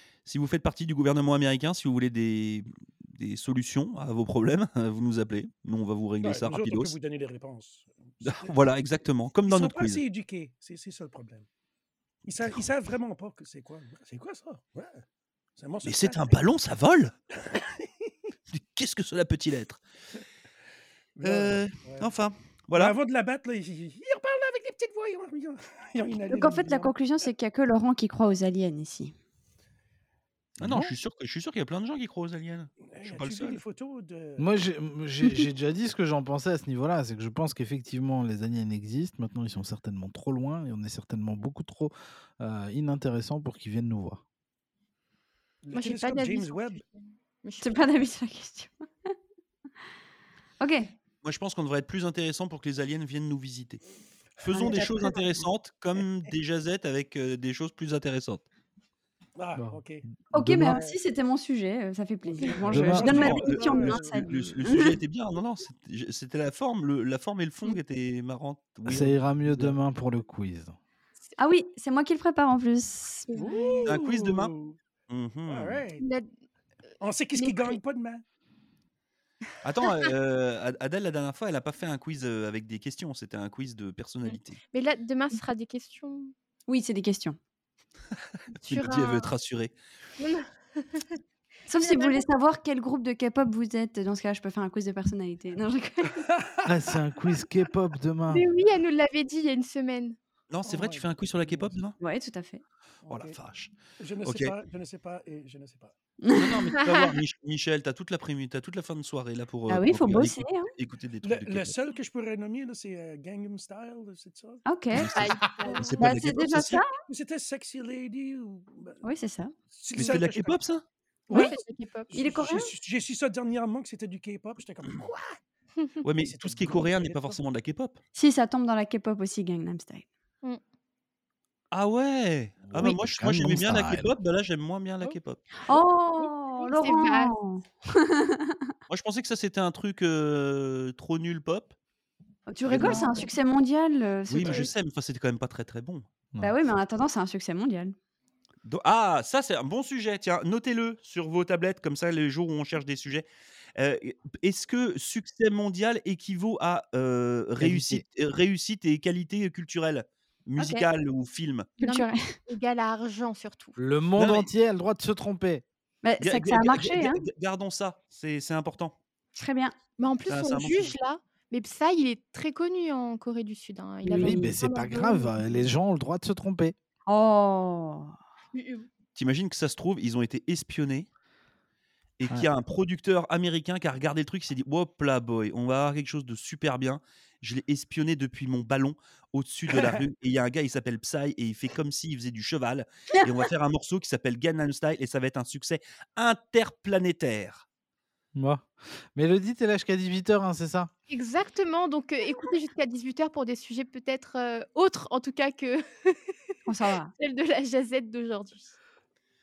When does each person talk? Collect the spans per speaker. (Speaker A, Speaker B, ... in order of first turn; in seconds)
Speaker A: 0.3-7.0, 8.2-10.0, 12.4-12.6, 15.8-17.1, 18.5-19.8, 21.2-23.0, 30.6-33.6, 51.2-53.8, 54.4-58.5, 63.1-69.8, 73.8-74.5, 75.1-75.8, 79.6-84.6, 88.6-89.7, 100.5-102.0, 103.1-104.5, 106.3-111.8, 114.9-116.8, 120.0-120.8, 126.0-128.0, 131.7-135.4, 138.9-141.8, 142.7-143.2, 144.3-146.1, 148.7-153.2, 153.8-161.7, 164.2-164.5, 166.2-169.0, 170.3-170.9, 179.2-181.1, 182.2-197.7
Speaker B: 6.2-8.6, 9.4-11.5, 12.3-15.0, 15.6-16.4, 17.4-18.1, 21.2-22.1, 22.8-27.1, 32.9-34.5, 45.6-46.8, 59.4-60.1, 60.6-61.0, 62.2-64.4, 73.4-74.8, 75.5-76.0, 77.0-78.2, 100.7-101.8, 103.0-103.3, 104.0-105.9, 111.2-114.6, 117.1-119.0, 119.7-120.6, 121.3-125.4, 126.2-127.4, 144.4-144.7
Speaker C: 26.3-29.1, 47.6-48.8, 50.6-50.9, 54.5-55.5, 60.3-65.0, 71.4-73.9, 86.7-87.4, 91.7-96.3, 102.0-102.6, 106.2-106.8, 109.7-110.7, 114.7-115.1, 116.0-116.9, 119.0-119.5, 122.1-122.7, 128.2-130.1, 135.7-138.6, 142.5-144.8, 146.4-147.9, 160.6-160.9, 161.8-162.3, 166.0-167.2, 169.4-169.7, 174.1-174.6, 177.1-178.1, 206.7-207.1
Speaker D: 30.6-30.9, 34.4-44.2, 60.3-60.8, 62.7-63.3, 68.9-70.8, 96.7-98.5, 132.7-134.1, 157.6-158.0, 163.8-165.6, 174.2-176.8, 198.3-200.9
Speaker E: 45.8-47.8, 77.4-77.8, 84.7-86.3, 88.7-89.2, 91.8-92.2, 98.3-100.2, 115.1-115.9, 121.3-122.1, 136.6-137.3, 161.8-163.7, 170.0-175.7, 178.5-178.9, 201.1-205.8, 207.2-208.6